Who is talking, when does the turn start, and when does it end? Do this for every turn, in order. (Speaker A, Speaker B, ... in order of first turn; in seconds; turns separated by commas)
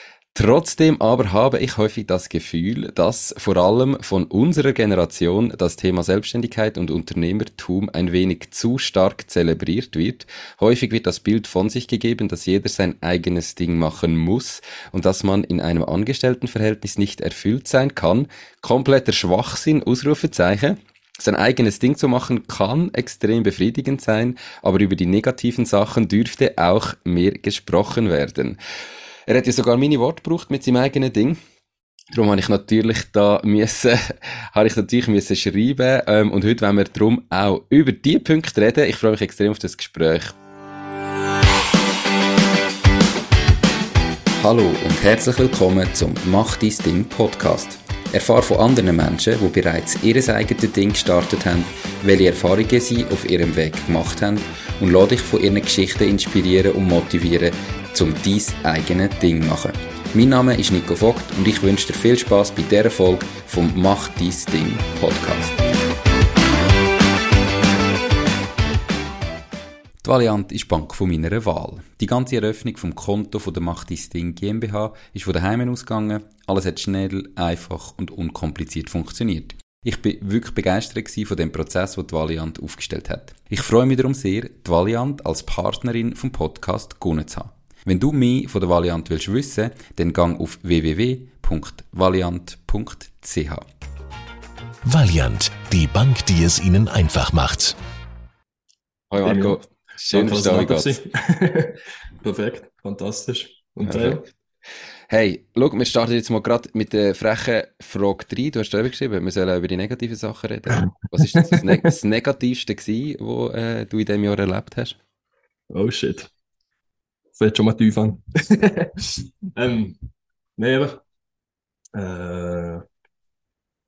Speaker A: 0.3-28.6, Speaker A: 29.3-31.4, Speaker A: 32.1-40.3, Speaker A: 44.4-65.5, Speaker A: 70.0-93.7, Speaker B: 94.8-97.8, Speaker A: 99.1-101.0, Speaker C: 99.2-99.6, Speaker C: 100.1-104.3, Speaker A: 103.8-104.2, Speaker A: 105.1-115.0, Speaker C: 115.7-116.3, Speaker C: 117.3-120.0, Speaker C: 120.6-121.0, Speaker C: 121.9-122.8